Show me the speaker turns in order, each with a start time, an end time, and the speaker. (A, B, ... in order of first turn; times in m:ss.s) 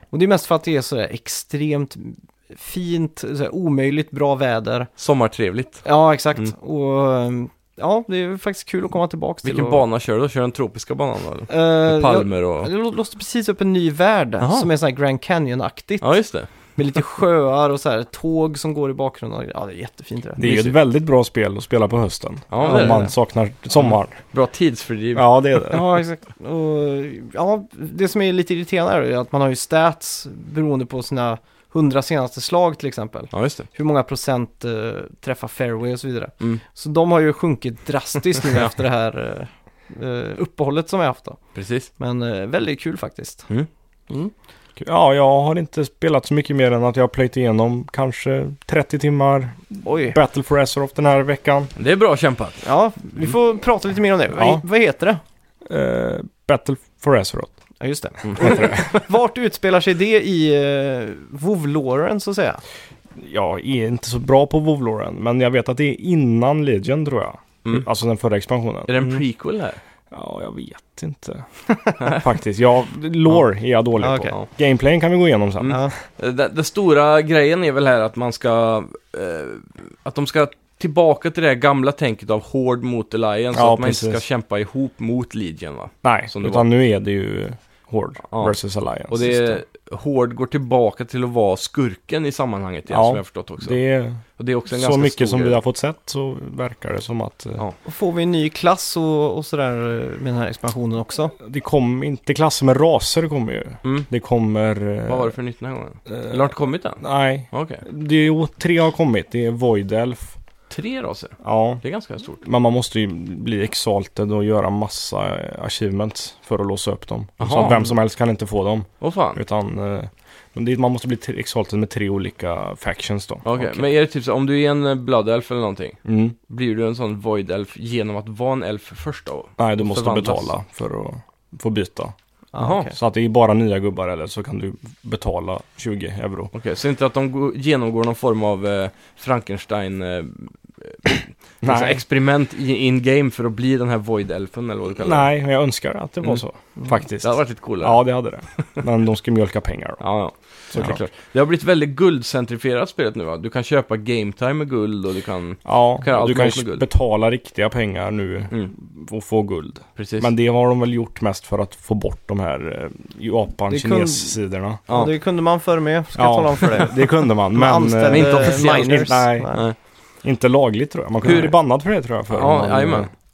0:00.1-0:04.9 A
0:05.0-0:05.8 B
0:05.8-0:09.8 A
0:09.4-0:12.7 B
0:11.5-0:20.5 A
0:14.4-0:14.7 B
0:16.0-0:16.5 B
0:20.4-0:24.2 C
0:20.4-0:20.7 B
0:22.5-0:23.1 B
0:22.6-0:23.1 A
0:23.8-0:25.5 B
0:25.2-0:25.9 C
0:25.7-0:41.4 A
0:33.3-0:33.7 B
0:41.6-0:41.9 B
0:42.0-0:43.5 A
0:44.8-0:51.7 C
0:49.8-0:50.2 A
0:51.8-0:52.7 B
0:52.6-0:55.2 A
0:54.4-0:54.6 C
0:55.7-0:57.5 C
0:57.8-1:02.6 A
0:58.3-0:58.9 C
1:03.2-1:08.9 C
1:08.9-1:09.8 B
1:10.1-1:15.9 C
1:14.0-1:14.4 A
1:15.6-1:26.6 B
1:15.7-1:15.9 A
1:23.5-1:24.2 C
1:26.0-1:29.4 C
1:28.3-1:28.6 B
1:29.1-1:33.8 B
1:32.9-1:37.6 C
1:34.4-1:35.6 B
1:37.8-1:41.4 A
1:41.4-1:45.4 C
1:43.8-1:44.1 B
1:45.1-1:47.8 B
1:46.1-1:50.4 C
1:50.7-1:52.4 B
1:51.4-1:51.8 C
1:52.4-2:03.8 C
1:57.4-1:57.9 B
1:59.0-1:59.4 B
2:03.4-2:10.5 B
2:06.0-2:06.4 C
2:09.6-2:12.2 C
2:12.5-2:13.0 A
2:12.6-2:12.9 B
2:12.9-2:16.5 C
2:16.5-2:25.3 B
2:21.6-2:22.0 C
2:25.0-2:30.0 C
2:27.2-2:28.0 B
2:28.6-2:28.8 B
2:30.0-2:36.8 B
2:30.7-2:31.0 C
2:35.6-2:44.8 C
2:40.0-2:40.3 B
2:43.7-2:44.4 A
2:44.9-2:49.7 A
2:46.2-2:49.6 C
2:48.1-2:49.8 B
2:50.2-2:53.1 C
2:51.2-2:51.6 B
2:52.3-2:53.1 B